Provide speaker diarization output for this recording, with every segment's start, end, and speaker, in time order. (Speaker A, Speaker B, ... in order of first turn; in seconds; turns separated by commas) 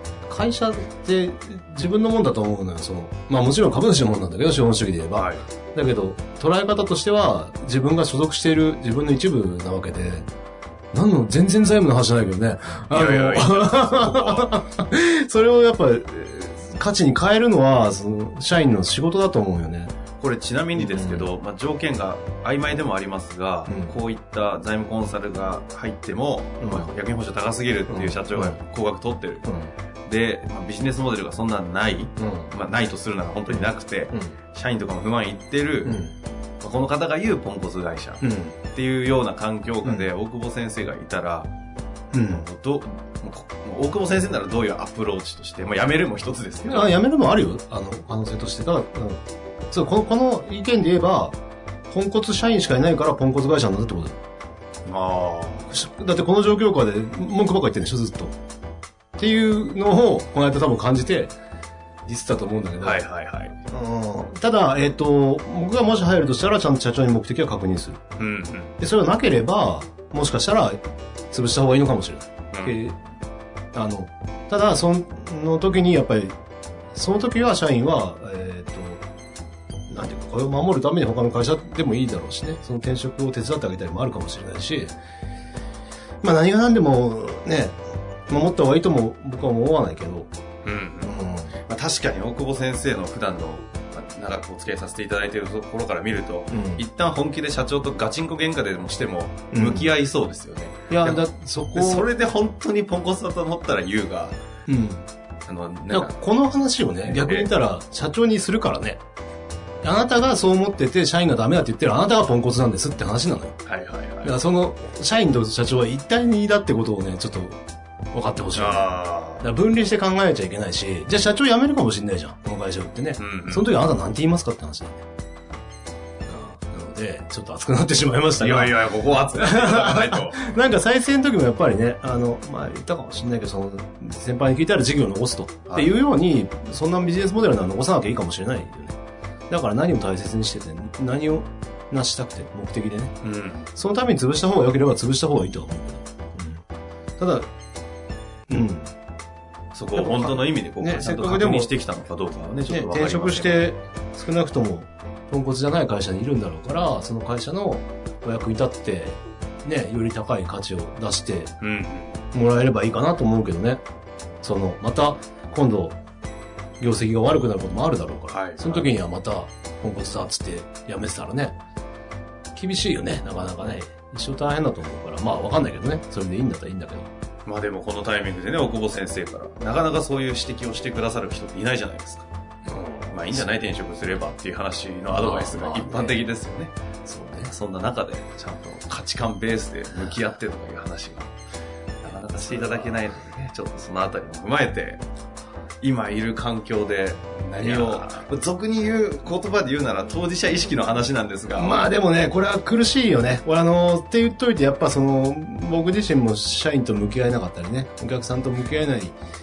Speaker A: 0.3-10.3, Speaker B: 5.1-5.5, Speaker A: 10.9-19.9, Speaker B: 12.9-14.6, Speaker B: 20.2-29.5, Speaker A: 20.8-21.3, Speaker A: 23.7-23.9, Speaker A: 26.6-26.9, Speaker A: 27.9-28.6, Speaker A: 29.4-29.7, Speaker B: 30.1-36.0, Speaker A: 32.2-32.5, Speaker A: 33.5-34.4, Speaker A: 35.8-36.1, Speaker B: 36.6-41.5, Speaker A: 38.2-38.6, Speaker A: 42.1-42.5, Speaker B: 42.2-47.0, Speaker A: 46.7-51.4, Speaker A: 51.9-54.1, Speaker B: 54.9-55.8, Speaker A: 55.7-58.4, Speaker A: 59.2-61.3, Speaker A: 62.0-63.0, Speaker B: 62.8-63.5, Speaker A: 63.7-68.0, Speaker B: 68.2-68.8, Speaker A: 68.8-70.8, Speaker A: 71.3-73.0, Speaker B: 72.5-72.8, Speaker A: 73.7-76.4, Speaker A: 76.9-79.0, Speaker A: 79.9-85.0, Speaker A: 86.2-90.3, Speaker B: 90.6-91.1, Speaker A: 91.0-91.5, Speaker B: 91.7-104.4, Speaker A: 96.5-96.8, Speaker A: 99.5-99.9, Speaker A: 100.9-102.1, Speaker A: 104.7-105.1, Speaker B: 105.5-106.2, Speaker A: 105.9-109.0, Speaker B: 107.0-107.5, Speaker A: 109.8-113.6, Speaker B: 113.6-114.4, Speaker A: 114.2-117.6, Speaker A: 118.1-125.0, Speaker B: 118.5-119.5, Speaker B: 123.2-123.7, Speaker A: 126.2-139.0, Speaker B: 128.4-130.4, Speaker B: 135.7-136.0, Speaker A: 139.5-143.2, Speaker B: 143.2-143.7, Speaker A: 143.8-146.6, Speaker A: 147.2-147.5, Speaker A: 148.5-148.9, Speaker B: 149.7-153.7, Speaker A: 149.9-151.7, Speaker A: 152.7-161.5, Speaker B: 161.6-162.2, Speaker A: 162.3-163.8, Speaker A: 164.4-166.0, Speaker A: 166.8-171.6, Speaker B: 168.3-168.9, Speaker A: 172.5-177.1, Speaker B: 177.5-182.3, Speaker A: 182.7-183.5, Speaker B: 183.1-186.7, Speaker A: 185.1-186.2, Speaker A: 187.1-187.5, Speaker B: 187.3-191.3, Speaker B: 192.0-195.0, Speaker A: 192.4-193.2, Speaker B: 195.8-201.9, Speaker A: 197.6-198.1, Speaker A: 201.6-209.2